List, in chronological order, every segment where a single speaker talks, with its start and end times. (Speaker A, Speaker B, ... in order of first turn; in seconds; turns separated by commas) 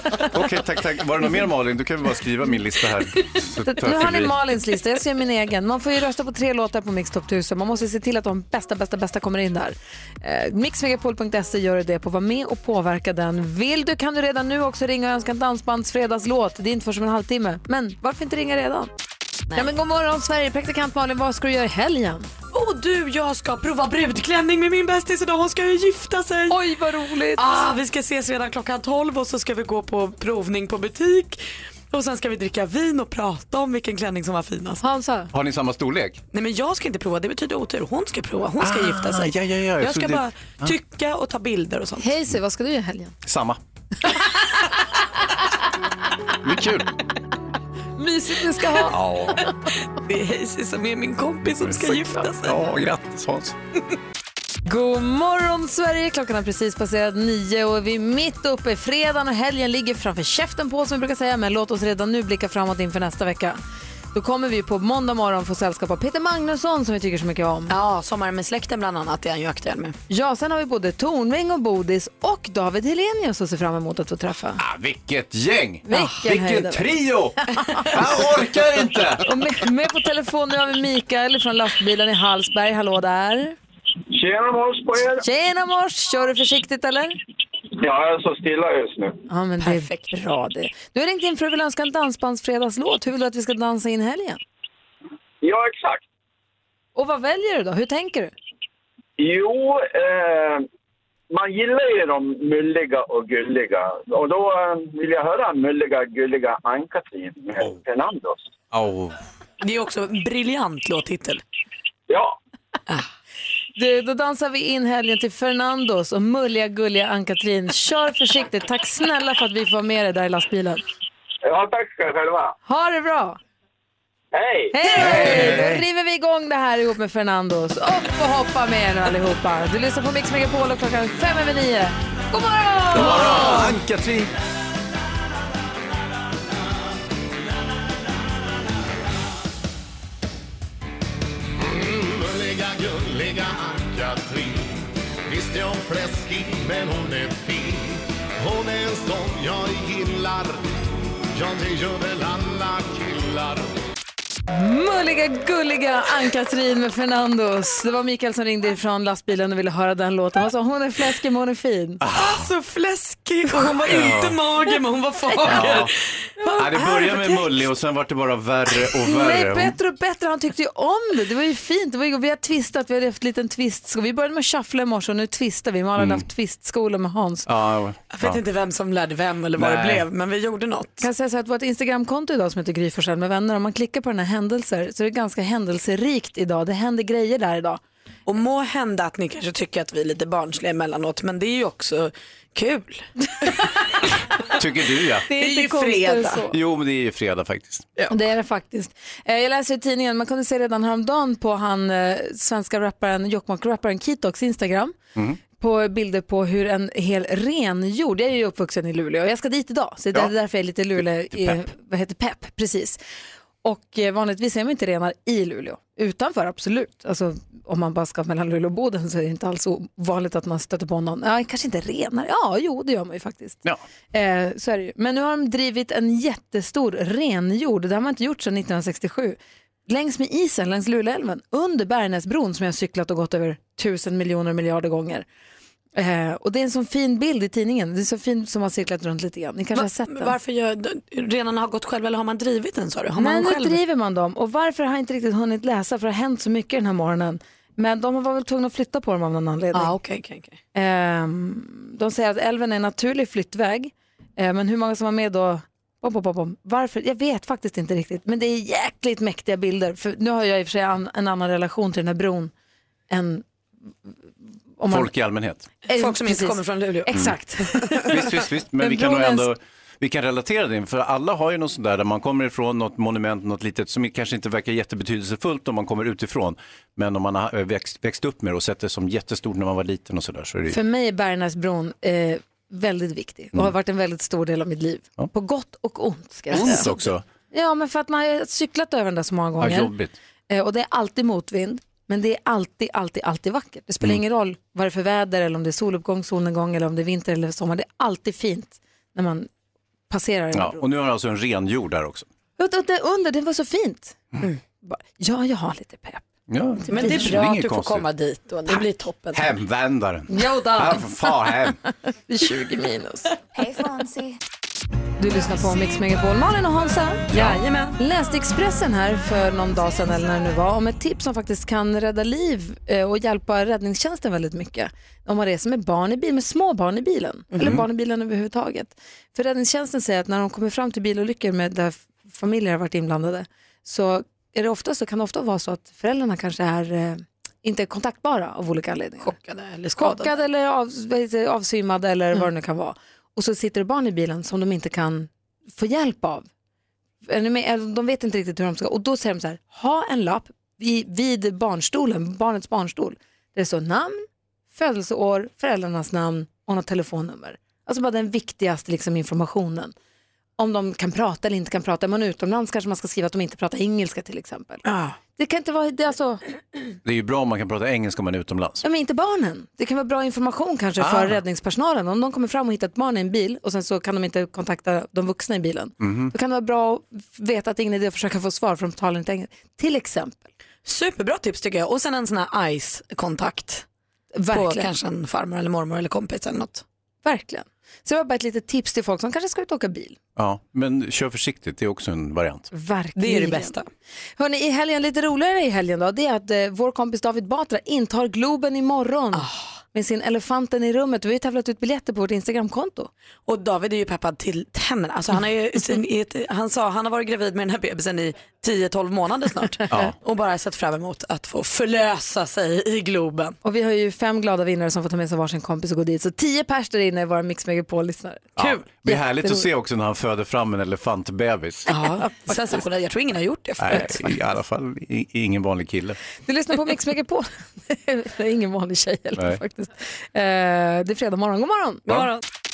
Speaker A: 0.1-4.4, Speaker B: 3.7-18.9, Speaker B: 19.5-22.3, Speaker C: 22.5-26.6, Speaker B: 26.5-27.4, Speaker C: 27.4-31.4, Speaker C: 31.9-34.8, Speaker B: 34.8-35.3, Speaker A: 35.3-36.2, Speaker C: 36.3-42.1, Speaker A: 38.6-40.7, Speaker B: 42.0-43.1, Speaker A: 43.2-43.6, Speaker A: 46.4-46.9, Speaker B: 48.0-48.9, Speaker A: 48.9-49.4, Speaker C: 49.9-52.6, Speaker A: 51.6-53.5, Speaker B: 54.6-63.6, Speaker B: 64.1-67.7, Speaker C: 67.7-69.9, Speaker B: 70.1-74.6, Speaker A: 74.6-77.4, Speaker B: 75.8-76.8, Speaker B: 77.6-77.9, Speaker A: 77.9-79.2, Speaker B: 79.2-83.5, Speaker D: 84.1-85.2, Speaker B: 85.2-87.2, Speaker D: 87.8-89.2, Speaker B: 89.3-94.4, Speaker C: 89.6-90.1, Speaker D: 95.4-96.0, Speaker B: 96.9-98.3, Speaker D: 99.2-100.6, Speaker D: 101.3-108.5, Speaker A: 108.7-109.2, Speaker C: 109.6-111.4, Speaker D: 112.1-112.3, Speaker B: 113.8-120.8, Speaker D: 121.4-122.5, Speaker B: 122.7-123.4, Speaker D: 124.3-124.8, Speaker B: 124.7-133.8, Speaker A: 124.9-125.8, Speaker A: 132.9-134.3, Speaker E: 141.6-150.6, Speaker E: 151.3-153.7, Speaker B: 154.5-162.0, Speaker A: 162.0-162.5, Speaker C: 162.1-167.4, Speaker A: 163.8-164.4, Speaker A: 165.4-165.9, Speaker A: 166.6-169.8, Speaker B: 169.0-177.5, Speaker A: 176.0-176.2, Speaker A: 177.4-178.4, Speaker C: 178.1-181.1, Speaker A: 179.6-180.1, Speaker B: 181.0-187.8, Speaker C: 188.2-193.7, Speaker A: 194.6-195.3, Speaker B: 195.3-196.5, Speaker C: 195.3-196.4, Speaker A: 196.5-197.9, Speaker B: 198.1-205.0, Speaker B: 205.6-213.0, Speaker A: 211.3-211.6, Speaker B: 213.6-235.2, Speaker B: 235.9-240.3, Speaker C: 239.8-243.8, Speaker B: 243.2-249.9, Speaker C: 249.7-250.6, Speaker B: 250.7-262.5, Speaker B: 263.1-263.4, Speaker B: 264.8-265.1, Speaker A: 264.9-265.7, Speaker B: 265.8-268.1, Speaker C: 265.9-267.1, Speaker A: 268.1-280.8, Speaker B: 268.8-269.5, Speaker B: 280.7-289.9, Speaker A: 286.5-287.2, Speaker A: 289.6-290.1, Speaker B: 290.5-299.5, Speaker B: 300.1-300.8, Speaker A: 300.5-302.3, Speaker B: 302.6-304.2, Speaker B: 304.8-306.2, Speaker A: 306.5-308.1, Speaker B: 306.8-307.3, Speaker C: 306.9-309.4, Speaker A: 309.3-311.8, Speaker B: 310.3-311.3, Speaker B: 312.3-314.2, Speaker B: 315.2-317.3, Speaker A: 317.3-317.6, Speaker C: 317.3-318.0, Speaker B: 318.0-339.3, Speaker C: 327.5-327.8, Speaker C: 339.2-340.4, Speaker B: 340.0-346.4, Speaker B: 347.2-359.9, Speaker B: 360.6-364.8, Speaker C: 364.8-365.2, Speaker B: 365.3-366.4, Speaker A: 367.0-368.8, Speaker B: 368.8-380.4, Speaker A: 371.0-371.4, Speaker A: 376.0-376.3, Speaker C: 380.8-383.8, Speaker B: 384.3-384.9, Speaker C: 384.5-386.8, Speaker B: 387.2-390.2, Speaker A: 390.4-392.7, Speaker B: 392.7-393.7, Speaker C: 393.1-393.9, Speaker B: 394.4-403.1, Speaker C: 399.3-399.7, Speaker C: 403.5-413.6, Speaker A: 409.9-410.1, Speaker B: 413.6-419.6, Speaker A: 418.6-421.9, Speaker C: 421.9-424.3, Speaker A: 423.8-426.2, Speaker B: 426.4-432.1, Speaker C: 432.1-432.4